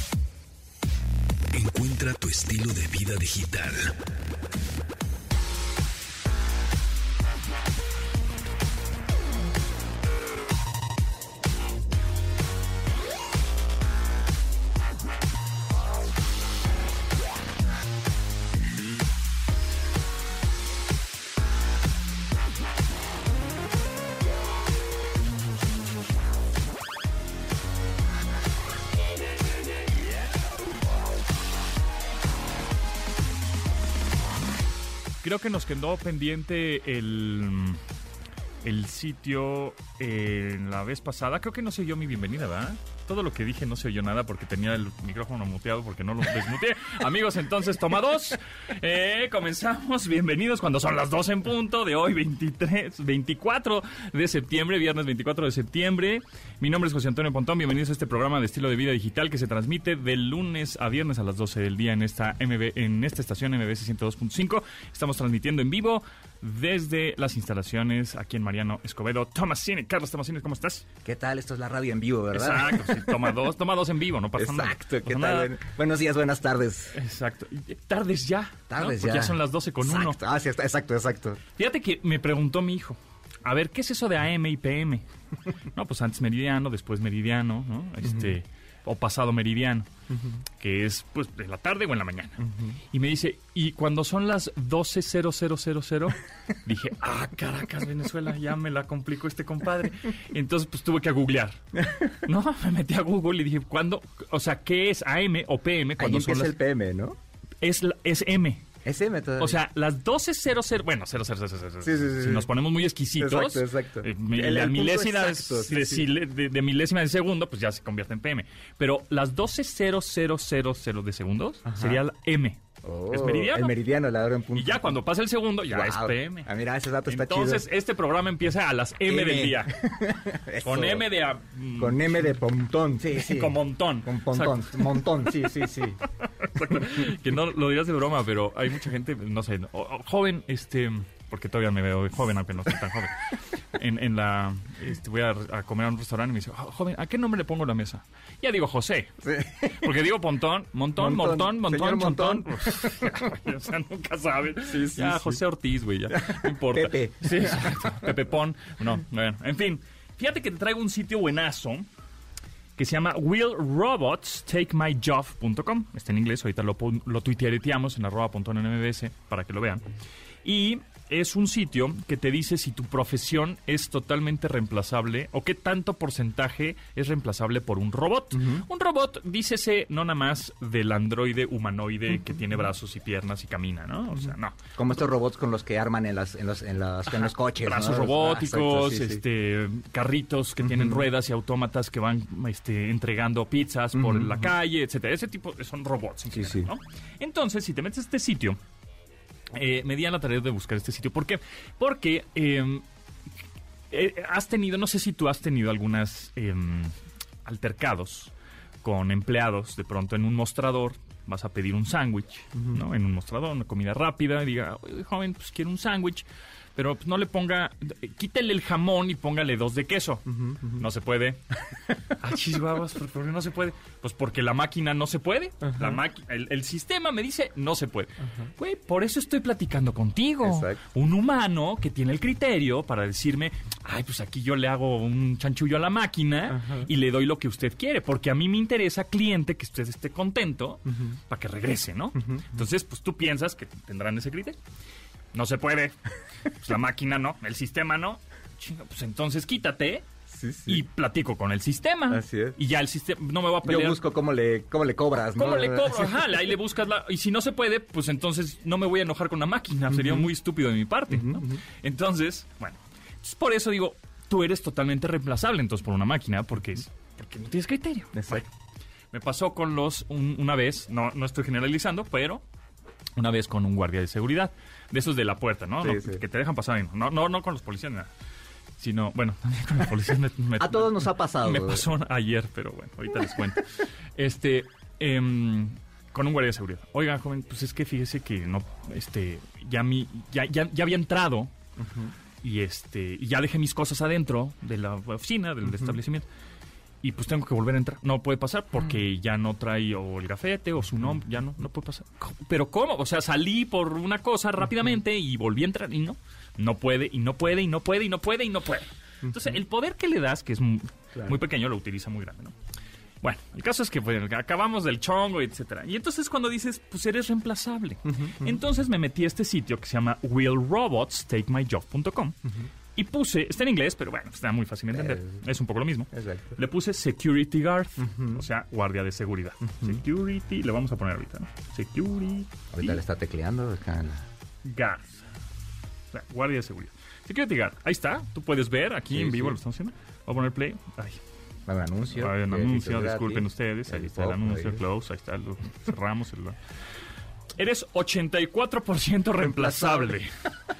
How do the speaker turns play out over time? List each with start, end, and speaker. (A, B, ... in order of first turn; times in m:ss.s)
0:01.5-0:04.0 A
0:35.2-0:37.8 B
0:38.6-1:10.8 B
1:11.0-1:13.4 C
1:12.3-1:15.5 B
1:14.4-1:17.0 C
1:16.9-1:20.2 B
1:18.7-1:21.4 C
1:21.6-1:25.0 B
1:25.7-1:29.9 B
1:28.0-1:28.4 C
1:30.1-1:30.4 C
1:30.6-1:46.6 B
1:32.4-1:32.8 C
1:41.8-1:42.1 C
1:46.0-1:47.2 C
1:47.6-1:48.6 B
1:48.8-1:49.6 C
1:49.4-2:03.8 B
1:51.8-1:52.5 C
1:53.2-1:56.1 C
2:01.6-2:02.0 C
2:02.8-2:05.0 C
2:04.5-2:06.5 B
2:05.7-2:07.6 C
2:07.0-2:09.8 B
2:09.1-2:11.1 C
2:10.6-2:12.3 B
2:11.8-2:16.0 C
2:13.1-2:41.9 B
2:29.2-2:29.9 C
2:31.0-2:33.2 C
2:34.7-2:35.4 C
2:36.1-2:38.1 C
2:42.8-2:49.8 B
2:50.4-3:04.6 B
2:58.3-2:58.6 C
3:04.1-3:09.2 C
3:07.1-3:18.6 B
3:10.6-3:11.0 C
3:13.9-3:14.5 C
3:16.3-3:16.7 C
3:19.5-3:22.8 B
3:23.9-3:26.9 B
3:27.4-3:28.3 B
3:28.8-3:41.4 B
3:32.5-3:32.8 C
3:40.3-3:40.8 C
3:42.0-4:04.6 B
3:45.6-3:46.0 C
3:50.4-3:50.8 C
3:56.5-3:56.9 C
4:00.9-4:01.2 C
4:02.2-4:02.6 C
4:05.3-4:06.0 B
4:06.5-4:10.0 B
4:10.3-4:10.8 C
4:10.7-4:14.0 B
4:12.1-4:12.6 C
4:13.6-4:16.4 C
4:15.3-4:28.5 B
4:19.9-4:20.3 C
4:21.1-4:21.6 C
4:28.1-4:28.4 C
4:29.1-4:32.4 B
4:33.2-4:38.1 B
4:35.8-4:36.2 C
4:38.8-4:51.5 B
4:40.6-4:41.8 C
4:51.8-4:52.1 C
4:52.4-4:56.2 B
4:55.6-4:55.9 C
4:57.0-5:12.6 B
5:09.3-5:09.6 C
5:13.2-5:22.4 B
5:18.0-5:18.6 C
5:22.4-5:22.7 C
5:23.0-5:32.6 B
5:24.9-5:25.4 C
5:26.1-5:26.6 C
5:28.0-5:28.4 C
5:32.7-5:34.2 C
5:34.6-5:35.2 B
5:36.1-5:41.2 B
5:39.1-5:39.6 C
5:41.7-5:44.8 C
5:42.1-5:46.6 B
5:47.6-5:50.3 B
5:49.4-5:50.2 C